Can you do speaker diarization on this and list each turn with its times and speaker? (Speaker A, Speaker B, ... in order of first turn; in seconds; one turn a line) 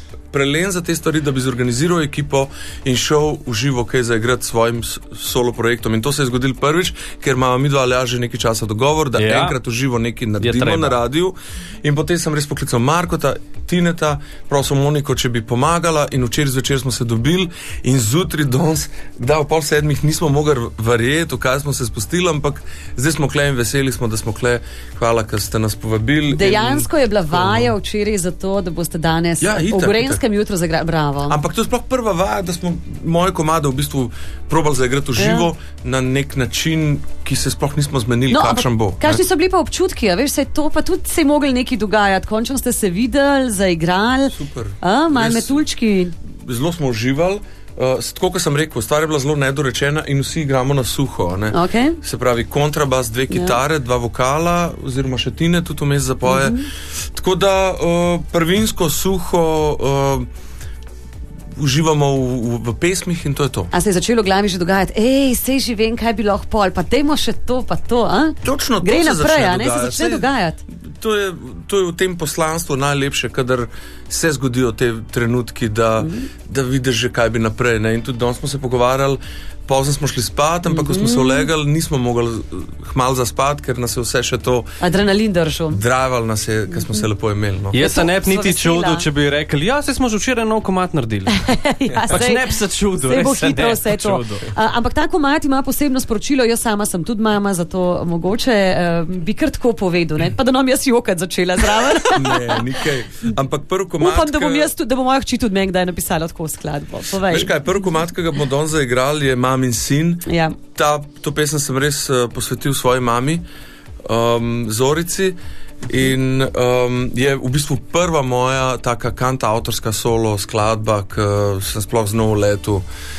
Speaker A: 0.3-27.7
Speaker B: 9.2-9.6
Speaker B: 10.4-10.9
Speaker C: 26.3-31.4
Speaker A: 29.4-30.2
Speaker A: 31.3-39.2
Speaker C: 35.2-35.5
Speaker C: 38.3-46.1
Speaker A: 44.3-45.6
Speaker A: 46.2-60.3
Speaker C: 51.5-52.0
Speaker C: 53.3-53.6
Speaker C: 56.2-56.7
Speaker A: 61.5-63.7
Speaker C: 63.7-70.6
Speaker A: 68.4-84.7
Speaker C: 76.0-76.3
Speaker C: 80.7-81.5
Speaker C: 84.8-85.8
Speaker A: 85.7-87.8
Speaker B: 87.7-91.4
Speaker C: 87.7-89.0
Speaker C: 91.3-92.5
Speaker B: 92.1-94.5
Speaker C: 93.0-102.6
Speaker A: 102.0-104.7
Speaker C: 104.0-107.5
Speaker A: 107.2-113.4
Speaker C: 110.2-110.5
Speaker A: 114.0-122.8